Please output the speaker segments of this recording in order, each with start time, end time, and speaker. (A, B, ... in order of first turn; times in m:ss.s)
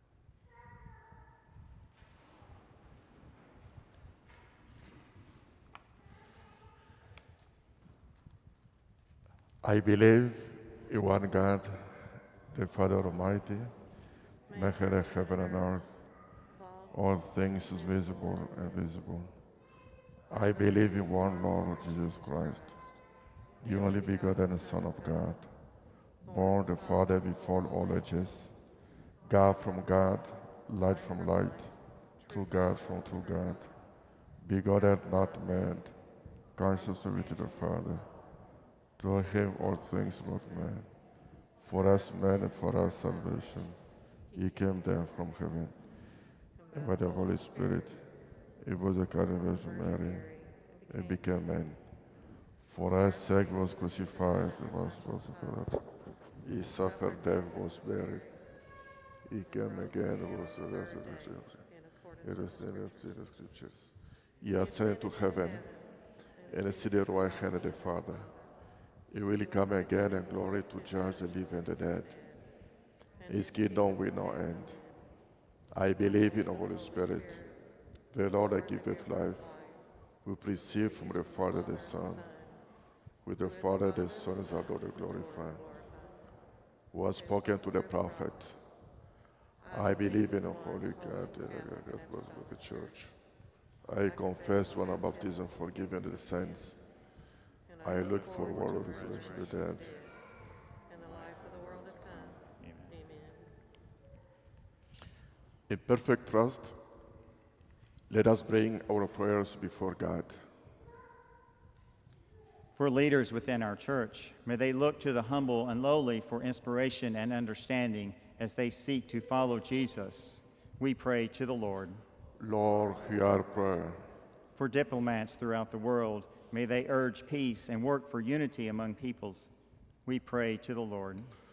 0:09.6-0:13.8 A
0:14.5-0:15.8 B
0:14.5-0:16.0 A
0:16.5-0:19.0 B
0:16.9-0:19.4 A
0:20.3-0:23.0 B
0:20.3-0:23.0 A
0:23.6-0:25.5 B
0:23.6-0:25.5 A
0:26.2-0:28.6 A
0:26.2-0:28.3 B
0:29.2-0:33.8 A
0:29.4-0:30.2 B
0:30.8-0:33.8 B
0:34.3-0:36.0 A
0:34.7-0:35.9 B
0:36.5-0:38.1 A
0:36.6-0:38.3 B
0:39.0-0:40.9 A
0:39.2-0:40.8 B
0:41.6-0:45.5 B
0:41.6-0:46.0 A
0:46.5-0:48.0 B
0:46.7-0:48.0 A
0:48.6-0:58.4 A
0:49.2-0:51.5 B
0:53.0-0:55.7 B
0:56.6-0:58.4 B
0:59.2-1:01.7 A
0:59.4-1:03.2 B
1:02.2-1:05.7 A
1:04.5-1:08.5 B
1:06.5-1:08.3 A
1:09.1-1:12.2 A
1:09.3-1:12.5 B
1:13.2-1:15.1 B
1:13.3-1:14.8 A
1:15.7-1:17.4 A
1:16.1-1:17.6 B
1:18.1-1:19.5 A
1:18.2-1:19.8 B
1:20.2-1:22.3 A
1:20.6-1:22.7 B
1:23.2-1:25.6 A
1:23.4-1:26.2 B
1:26.9-1:28.6 A
1:27.1-1:28.6 B
1:29.6-1:33.2 B
1:29.7-1:37.0 A
1:34.0-1:37.0 B
1:37.6-1:43.5 B
1:37.8-1:40.0 A
1:38.1-1:39.7 C
1:41.9-1:42.9 C
1:45.7-1:46.8 A
1:48.1-1:50.4 A
1:52.8-2:02.0 C
2:02.4-2:04.0 A
2:04.6-2:09.5 C
2:10.0-2:11.4 C